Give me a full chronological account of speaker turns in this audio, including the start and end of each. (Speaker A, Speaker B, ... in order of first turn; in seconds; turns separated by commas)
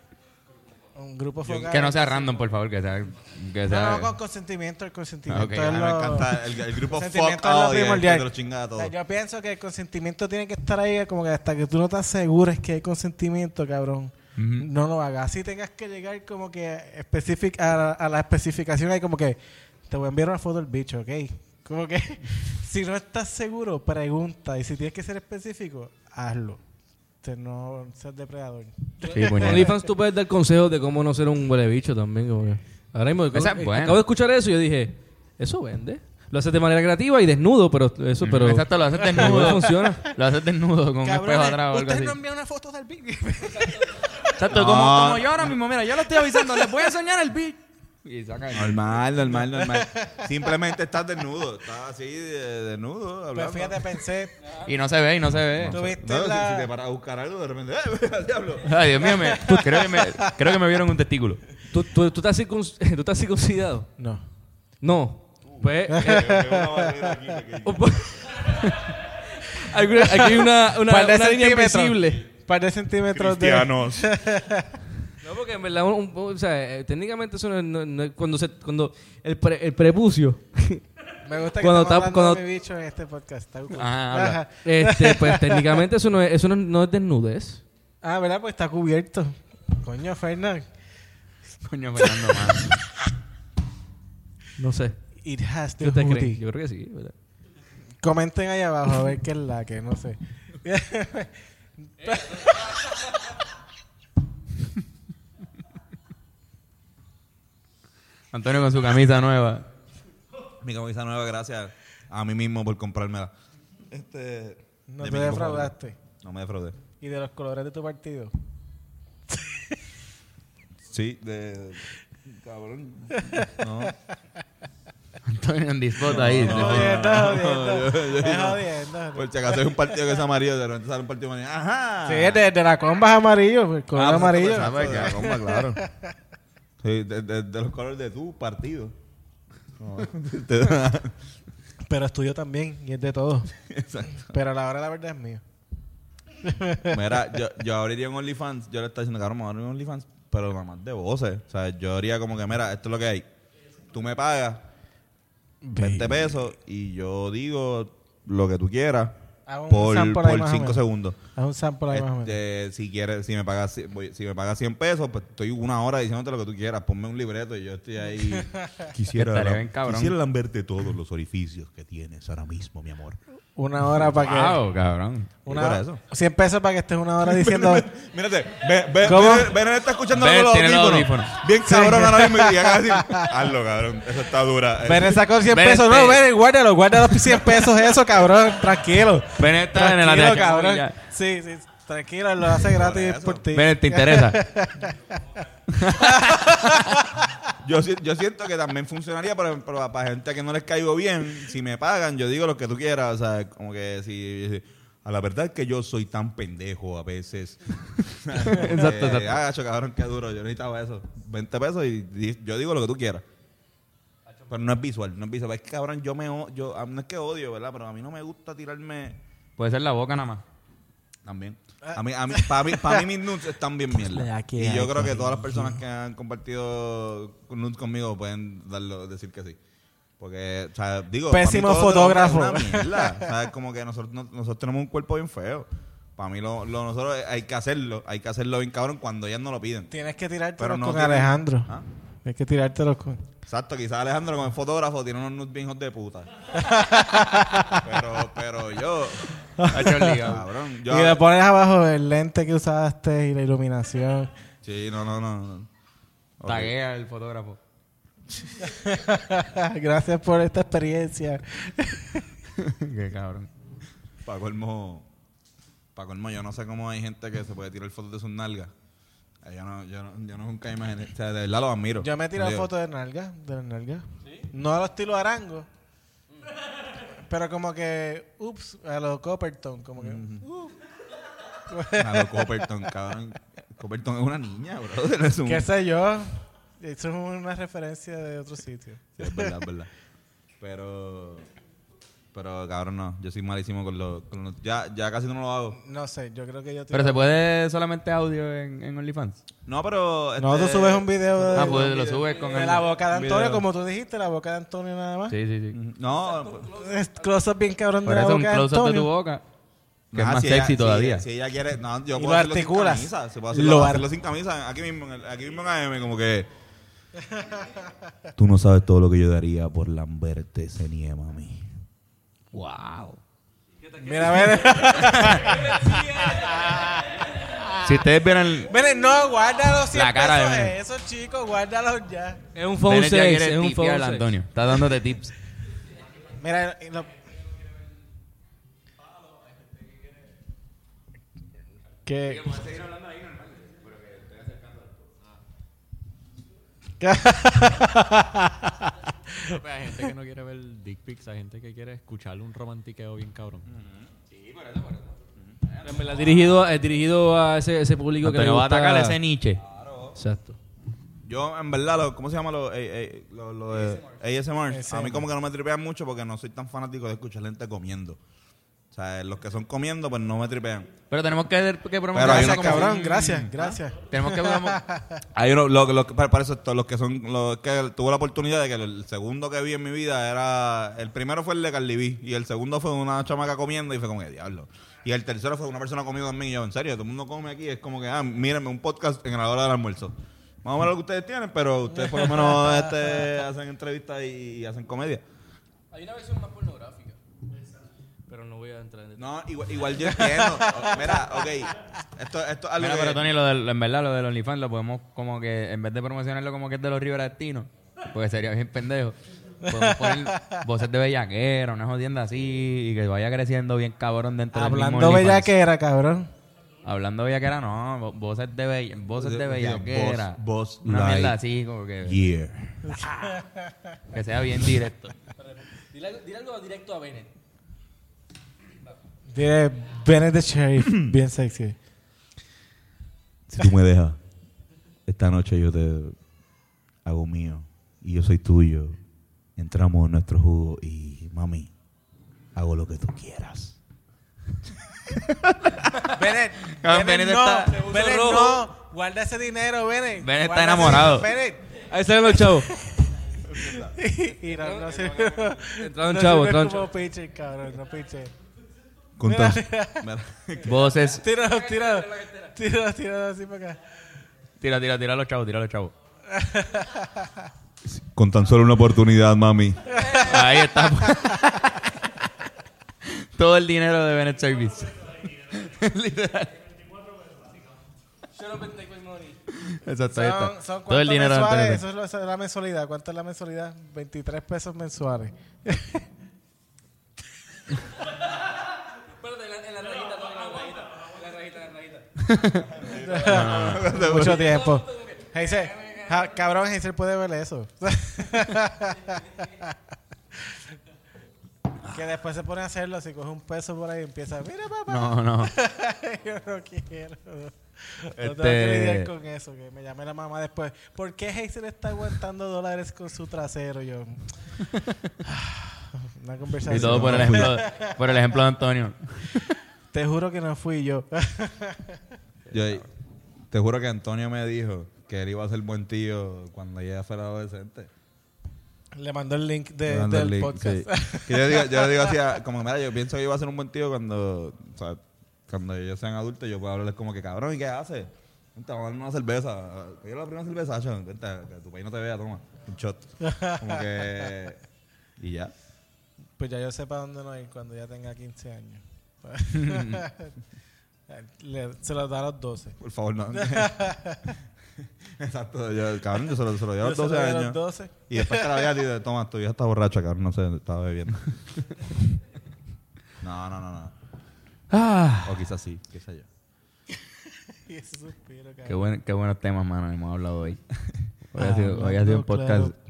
Speaker A: 0.9-2.4, Speaker B: 1.4-1.7, Speaker C: 1.7-4.1, Speaker A: 3.7-26.6, Speaker C: 5.3-5.8, Speaker B: 5.6-8.9, Speaker C: 14.4-14.7, Speaker A: 27.2-29.8, Speaker C: 29.1-29.7, Speaker D: 29.3-40.0, Speaker C: 33.3-34.0, Speaker C: 38.2-42.1, Speaker A: 39.0-39.6, Speaker A: 41.0-44.2, Speaker C: 44.4-48.9, Speaker B: 44.5-45.6, Speaker B: 48.5-53.9, Speaker A: 49.5-50.2, Speaker A: 53.3-54.3, Speaker C: 54.6-55.8, Speaker B: 55.4-58.7, Speaker A: 55.7-56.7, Speaker C: 58.6-61.4, Speaker A: 59.0-60.2, Speaker D: 61.7-63.9, Speaker A: 64.0-64.2, Speaker D: 64.8-66.3, Speaker B: 65.5-67.9, Speaker A: 65.9-67.2, Speaker D: 67.6-72.3, Speaker A: 70.0-74.8, Speaker B: 73.1-74.2, Speaker D: 75.2-80.9, Speaker A: 81.2-85.6, Speaker D: 81.5-82.4, Speaker C: 83.7-84.4, Speaker D: 84.6-87.6, Speaker A: 88.0-90.7, Speaker C: 91.6-92.8, Speaker A: 92.0-92.7, Speaker D: 94.6-95.0, Speaker A: 95.2-96.4, Speaker D: 95.8-97.1, Speaker A: 98.0-101.4, Speaker A: 102.0-103.2, Speaker D: 102.1-102.5, Speaker C: 108.3-109.7, Speaker B: 110.6-113.3, Speaker B: 113.9-116.8, Speaker A: 114.9-116.0, Speaker A: 117.0-118.3, Speaker A: 119.3-119.8, Speaker B: 120.9-124.0, Speaker A: 123.2-123.6, Speaker C: 125.3-127.3, Speaker B: 126.0-132.4, Speaker A: 126.3-129.8, Speaker A: 132.1-136.1, Speaker B: 133.9-135.8, Speaker C: 134.4-135.3, Speaker B: 136.8-138.9, Speaker B: 139.8-141.2, Speaker A: 141.9-143.5, Speaker B: 143.6-144.4, Speaker A: 144.2-145.4, Speaker A: 146.4-147.0, Speaker B: 146.9-153.3, Speaker B: 153.9-154.6, Speaker A: 155.6-156.2, Speaker B: 155.8-159.2, Speaker A: 159.5-160.8, Speaker B: 159.7-161.2, Speaker A: 161.3-162.4, Speaker B: 161.9-173.2, Speaker A: 168.3-168.9, Speaker C: 169.1-170.1, Speaker A: 173.6-174.6, Speaker C: 174.1-175.3, Speaker A: 175.4-177.9, Speaker B: 175.5-176.0, Speaker B: 177.2-185.3, Speaker A: 179.0-179.5, Speaker C: 180.1-181.3, Speaker A: 181.6-183.3, Speaker A: 184.8-195.3, Speaker C: 185.4-186.2, Speaker C: 189.4-190.9, Speaker B: 192.6-193.5, Speaker C: 193.5-194.4, Speaker C: 195.7-196.7, Speaker A: 195.9-197.4, Speaker B: 197.6-213.2, Speaker C: 208.4-209.4, Speaker B: 214.5-219.2, Speaker C: 219.6-220.4, Speaker B: 221.2-229.6, Speaker A: 221.8-223.1, Speaker A: 224.0-225.8, Speaker B: 230.2-239.9, Speaker A: 231.3-233.3, Speaker A: 239.9-241.7, Speaker B: 240.6-241.8, Speaker A: 242.2-243.2, Speaker B: 243.4-246.6, Speaker A: 246.6-247.8, Speaker B: 247.7-249.3, Speaker A: 249.6-250.3, Speaker C: 249.7-250.4, Speaker B: 250.2-251.2, Speaker A: 250.8-254.3, Speaker B: 254.6-255.7, Speaker B: 256.4-256.7, Speaker C: 256.4-257.6, Speaker A: 258.5-262.3, Speaker C: 262.6-263.5, Speaker B: 264.2-265.1, Speaker B: 265.9-268.7, Speaker B: 269.4-272.7, Speaker A: 272.0-275.7, Speaker A: 277.3-280.7, Speaker B: 280.0-280.4, Speaker A: 281.7-282.7, Speaker B: 281.9-285.7, Speaker A: 285.4-289.6, Speaker B: 289.2-289.9, Speaker B: 290.6-291.5, Speaker B: 292.3-295.8, Speaker A: 295.7-297.3, Speaker C: 296.9-299.4, Speaker B: 299.7-303.6, Speaker A: 300.4-305.4, Speaker C: 301.5-302.9, Speaker C: 305.3-305.8, Speaker B: 305.7-306.7, Speaker A: 306.7-309.1, Speaker C: 308.1-309.4, Speaker B: 310.1-316.5, Speaker C: 310.1-311.2, Speaker A: 312.1-314.1, Speaker A: 317.3-317.7, Speaker B: 318.4-321.7, Speaker C: 322.5-323.2, Speaker A: 324.0-327.8, Speaker D: 324.0-324.9, Speaker C: 325.1-325.4, Speaker C: 327.8-328.7, Speaker A: 328.7-332.4, Speaker C: 329.9-330.7, Speaker D: 332.6-334.3, Speaker C: 332.8-335.3, Speaker A: 336.4-337.1, Speaker A: 342.1-342.6, Speaker C: 342.3-345.0, Speaker A: 347.0-350.1, Speaker E: 350.2-353.4, Speaker B: 353.6-354.1, Speaker C: 354.3-355.1, Speaker B: 355.4-356.2, Speaker D: 355.8-359.2, Speaker C: 358.2-359.6, Speaker B: 359.6-360.2, Speaker D: 360.1-360.6, Speaker B: 361.2-368.2, Speaker A: 364.7-365.3, Speaker B: 368.9-370.9, Speaker C: 371.1-373.6, Speaker B: 372.1-373.6, Speaker A: 372.2-375.2, Speaker C: 374.1-374.8, Speaker B: 375.3-395.2, Speaker A: 392.0-393.1, Speaker D: 395.9-397.2, Speaker D: 398.3-399.3, Speaker B: 399.2-403.3, Speaker A: 400.1-400.9, Speaker C: 402.8-409.2, Speaker A: 409.6-410.6, Speaker C: 409.7-415.5, Speaker A: 414.5-416.3, Speaker C: 416.8-422.2, Speaker B: 419.2-421.4, Speaker B: 422.0-423.0, Speaker A: 422.8-423.8, Speaker C: 424.1-425.1, Speaker D: 425.4-427.3, Speaker A: 429.3-431.8, Speaker B: 433.5-434.2, Speaker B: 435.1-436.2, Speaker B: 437.1-439.0, Speaker B: 439.6-441.7, Speaker B: 442.6-443.8, Speaker A: 446.1-451.8, Speaker C: 446.7-447.7, Speaker D: 447.7-448.7, Speaker C: 450.2-451.3, Speaker D: 451.9-452.7, Speaker A: 452.4-453.1, Speaker B: 453.4-453.9, Speaker A: 453.6-458.3, Speaker D: 454.6-456.9, Speaker B: 459.2-460.9, Speaker A: 459.2-460.1, Speaker C: 460.6-461.2, Speaker A: 461.1-463.8, Speaker D: 461.4-462.5, Speaker C: 464.6-465.9, Speaker A: 466.3-467.5, Speaker B: 467.8-469.9, Speaker A: 469.9-470.3, Speaker C: 470.2-472.0, Speaker C: 473.0-476.5, Speaker D: 478.3-479.4, Speaker C: 479.5-481.8, Speaker A: 480.1-486.0, Speaker D: 489.2-492.1, Speaker C: 492.2-492.7, Speaker B: 492.6-494.6, Speaker A: 492.8-499.8, Speaker C: 493.2-493.9, Speaker D: 494.5-495.2, Speaker A: 501.9-514.3, Speaker C: 504.9-505.5, Speaker C: 508.2-509.1, Speaker A: 515.2-518.0, Speaker C: 516.7-519.5, Speaker B: 516.7-517.5, Speaker A: 519.9-522.0, Speaker B: 522.5-522.9, Speaker B: 523.5-527.9, Speaker A: 529.0-532.2, Speaker B: 529.9-544.6, Speaker A: 543.2-544.3, Speaker B: 545.2-545.5, Speaker A: 546.4-550.4, Speaker C: 549.5-550.0, Speaker A: 551.1-552.8, Speaker B: 552.8-553.8, Speaker A: 553.3-554.4, Speaker B: 554.8-561.7, Speaker A: 556.8-558.7, Speaker B: 563.2-563.9, Speaker C: 564.7-565.4, Speaker B: 565.2-566.3, Speaker A: 567.5-568.9, Speaker C: 568.7-570.6, Speaker C: 571.3-572.7, Speaker A: 571.4-572.8